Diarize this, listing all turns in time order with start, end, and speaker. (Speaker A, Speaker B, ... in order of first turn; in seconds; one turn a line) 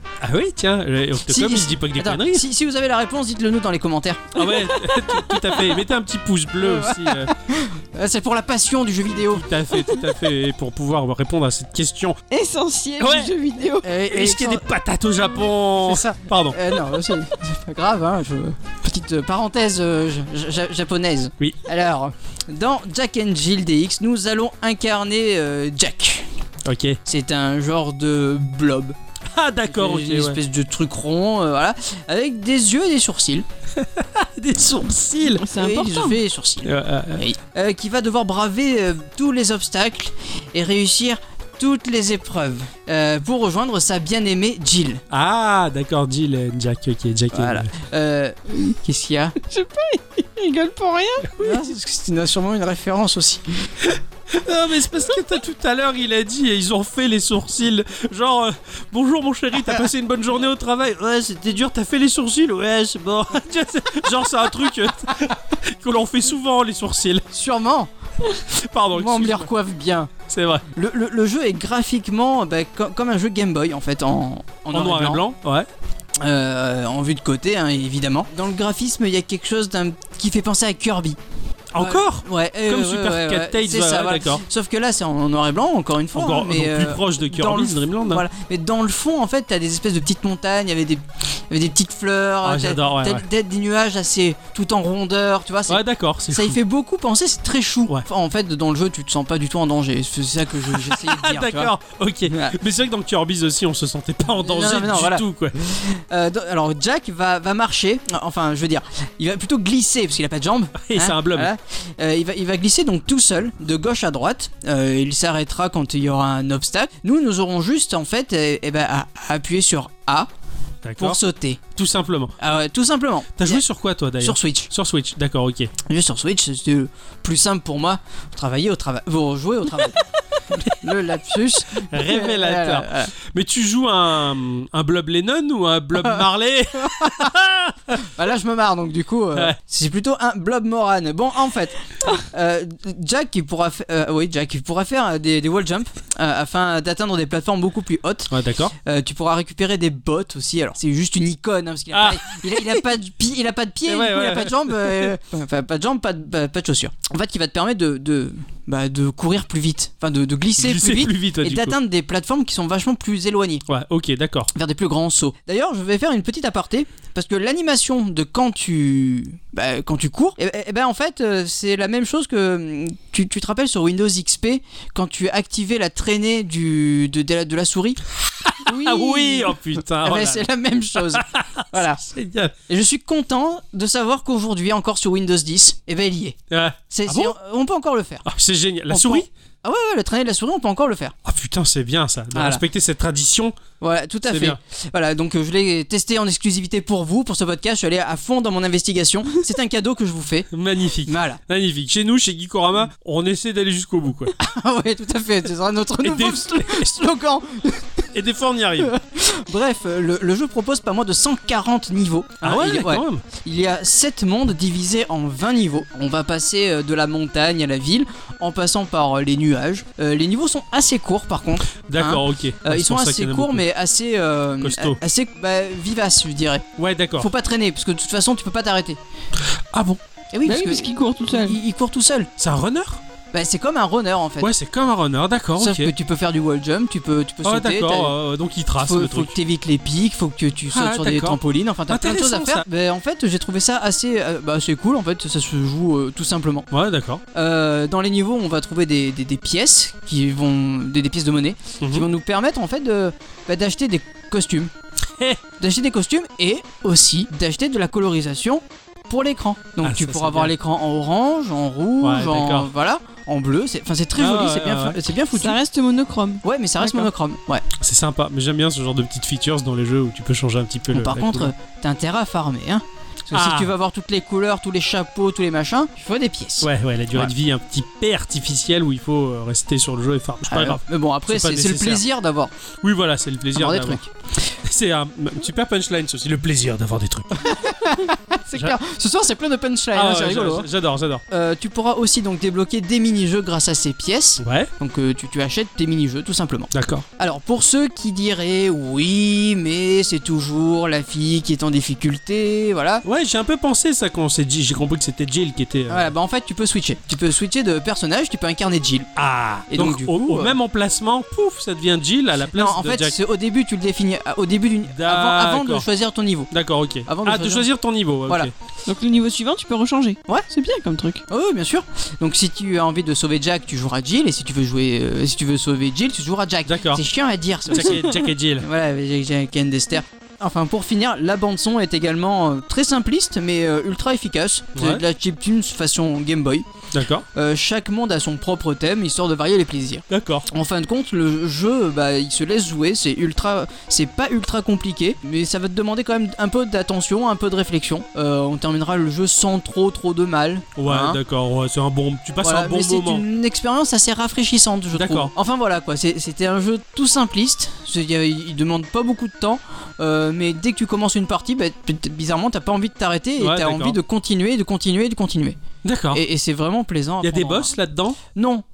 Speaker A: 0.2-2.5
Speaker B: 1.3-5.8
Speaker A: 4.3-7.3
Speaker B: 6.6-9.4
Speaker A: 9.3-12.2
Speaker C: 12.3-13.9
Speaker A: 13.0-13.3
Speaker B: 13.8-14.7
Speaker A: 14.1-16.6
Speaker B: 15.8-26.3
Speaker A: 26.6-27.0
Speaker B: 27.1-28.9
Speaker A: 29.3-30.4
Speaker B: 29.7-33.5
Speaker A: 33.8-35.5
Speaker C: 35.4-36.2
Speaker B: 35.5-45.0
Speaker A: 36.6-37.3
Speaker A: 45.1-47.7
Speaker B: 47.3-49.4
Speaker C: 49.4-51.4
Speaker A: 51.3-51.7
Speaker B: 51.4-53.7
Speaker A: 54.3-67.3
Speaker B: 67.3-67.9
Speaker A: 68.5-69.5
Speaker B: 68.9-70.1
Speaker A: 70.3-70.7
Speaker B: 70.7-75.2
Speaker A: 74.7-75.7
Speaker B: 76.2-81.2
Speaker A: 81.7-84.4
Speaker B: 81.8-101.7
Speaker A: 86.1-88.2
Speaker A: 92.4-93.3
Speaker A: 95.7-96.6
Speaker A: 100.7-105.6
Speaker B: 102.3-102.6
Speaker B: 104.4-120.3
Speaker A: 110.8-111.5
Speaker A: 120.8-121.2
Speaker B: 121.0-121.6
Speaker A: 121.7-122.3
Speaker B: 122.4-123.6
Speaker A: 123.4-125.7
Speaker B: 124.2-124.7
Speaker B: 125.8-133.1
Speaker A: 131.8-138.1
Speaker B: 136.8-137.3
Speaker B: 138.0-148.3
Speaker A: 148.3-148.8
Speaker B: 148.8-163.7
Speaker A: 151.9-152.7
Speaker A: 153.9-155.1
Speaker A: 160.6-161.8
Speaker A: 163.7-164.5
Speaker B: 164.6-178.0
Speaker A: 178.4-182.5
Speaker C: 178.7-179.5
Speaker B: 179.9-182.0
Speaker B: 182.7-186.4
Speaker A: 186.5-187.3
Speaker B: 186.9-188.2
Speaker A: 188.2-189.3
Speaker B: 188.9-191.2
Speaker A: 191.3-193.6
Speaker B: 192.3-192.6
Speaker B: 193.8-200.5
Speaker A: 194.3-194.6
Speaker A: 200.5-204.3
Speaker B: 201.1-201.4
Speaker B: 204.4-208.1
Speaker A: 206.0-207.0
Speaker A: 208.1-208.9
Speaker B: 208.8-229.0
Speaker A: 212.4-213.3
Speaker A: 221.8-223.7
Speaker A: 224.6-225.0
Speaker A: 226.8-227.3
Speaker A: 229.7-230.0
Speaker B: 230.3-232.3
Speaker C: 230.5-231.6
Speaker A: 232.4-233.0
Speaker B: 233.3-234.5
Speaker A: 234.4-235.9
Speaker B: 235.6-238.2
Speaker A: 237.4-239.3
Speaker B: 238.8-246.7
Speaker A: 240.7-242.7
Speaker A: 246.7-247.2
Speaker B: 247.3-254.7
Speaker A: 251.8-252.1
Speaker A: 255.2-255.4
Speaker B: 255.6-265.6
Speaker A: 259.8-260.5
Speaker A: 262.0-262.7
Speaker A: 264.2-265.0
Speaker C: 265.3-266.4
Speaker B: 266.4-267.6
Speaker A: 266.8-267.1
Speaker A: 267.8-271.5
Speaker B: 270.9-277.3
Speaker A: 273.3-273.7
Speaker A: 276.6-282.0
Speaker B: 280.5-282.5
Speaker A: 282.8-284.0
Speaker B: 283.6-284.1
Speaker A: 284.6-287.7
Speaker B: 287.4-290.7
Speaker A: 288.5-288.8
Speaker A: 289.9-291.2
Speaker B: 291.3-303.0
Speaker A: 294.4-294.7
Speaker A: 296.7-297.1
Speaker A: 303.0-306.1
Speaker B: 305.9-309.1
Speaker A: 309.2-313.2
Speaker B: 309.7-310.6
Speaker B: 312.5-316.5
Speaker A: 314.9-315.9
Speaker A: 316.5-318.5
Speaker B: 317.1-317.7
Speaker C: 318.9-321.2
Speaker B: 321.3-336.7
Speaker A: 326.7-327.0
Speaker A: 327.7-328.7
Speaker A: 334.8-335.1
Speaker A: 336.9-337.3
Speaker B: 337.4-351.2
Speaker A: 340.1-340.5
Speaker A: 350.8-353.2
Speaker B: 352.4-365.6
Speaker A: 354.9-355.3
Speaker A: 363.4-364.0
Speaker A: 365.8-366.2
Speaker B: 366.1-367.8
Speaker A: 367.2-368.2
Speaker B: 368.4-368.6